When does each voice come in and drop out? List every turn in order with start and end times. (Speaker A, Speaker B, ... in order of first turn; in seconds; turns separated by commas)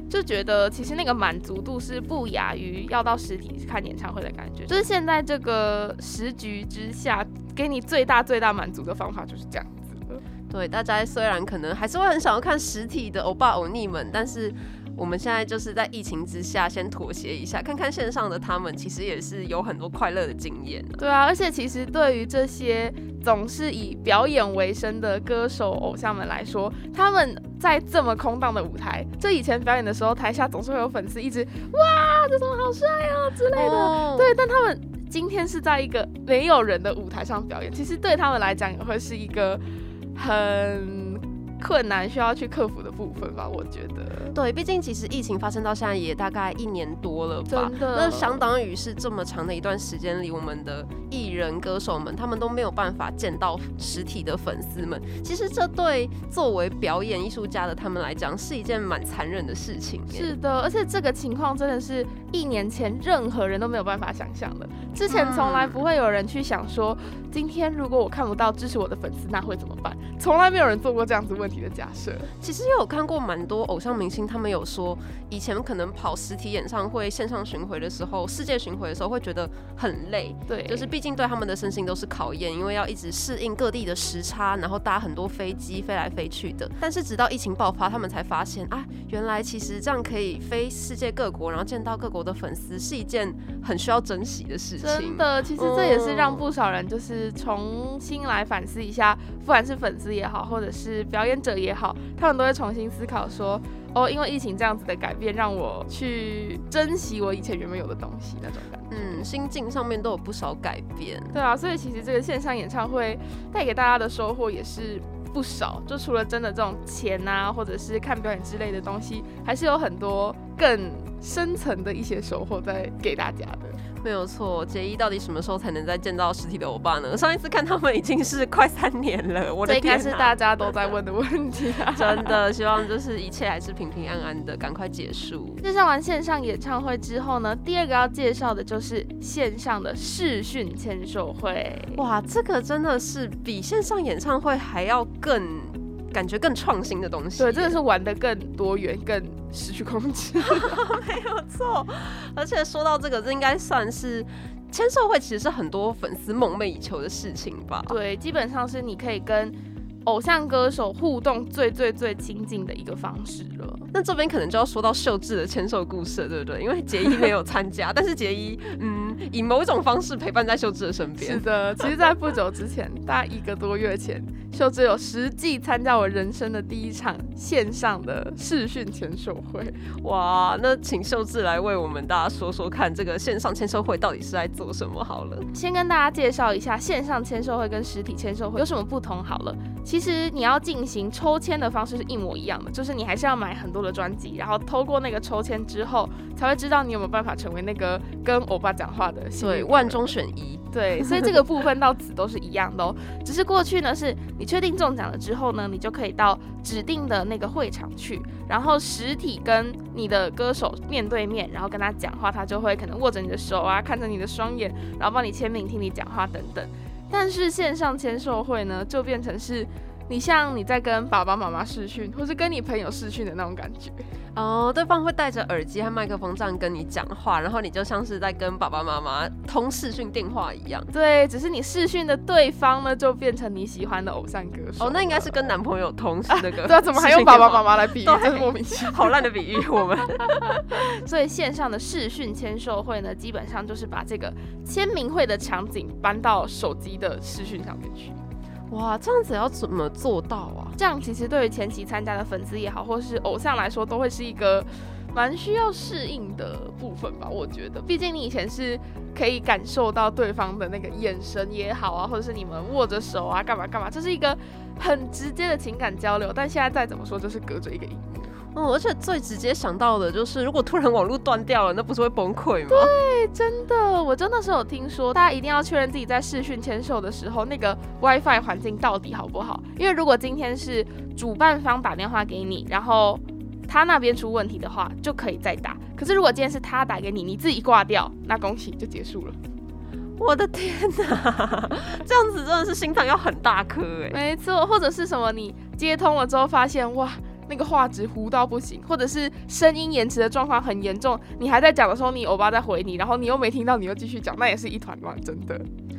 Speaker A: 0.1-10.2, Speaker B: 10.5-21.0, Speaker A: 21.0-39.6, Speaker B: 33.5-34.3, Speaker A: 40.1-44.3, Speaker B: 44.3-60.3, Speaker A: 47.5-48.4, Speaker A: 60.1-72.3, Speaker B: 65.1-65.8, Speaker B: 72.4-96.4, Speaker A: 80.5-80.9, Speaker A: 94.8-109.2, Speaker B: 108.9-111.3, Speaker A: 111.3-123.8, Speaker B: 124.0-130.3, Speaker A: 129.6-132.4, Speaker B: 131.9-135.6, Speaker A: 135.6-142.0, Speaker B: 141.9-147.8, Speaker A: 147.4-150.8, Speaker B: 150.4-157.9, Speaker A: 157.9-163.8, Speaker B: 163.9-171.4, Speaker A: 171.2-179.8, Speaker B: 180.0-185.5, Speaker A: 185.5-200.0, Speaker B: 199.4-201.3, Speaker A: 200.7-224.0, Speaker B: 224.3-230.9, Speaker A: 230.9-235.5, Speaker B: 234.8-240.8, Speaker A: 236.3-239.1, Speaker A: 240.7-248.2, Speaker B: 248.7-250.8, Speaker A: 250.8-268.3, Speaker B: 268.5-272.9, Speaker A: 272.7-289.4, Speaker B: 290.2-294.2, Speaker A: 294.1-305.6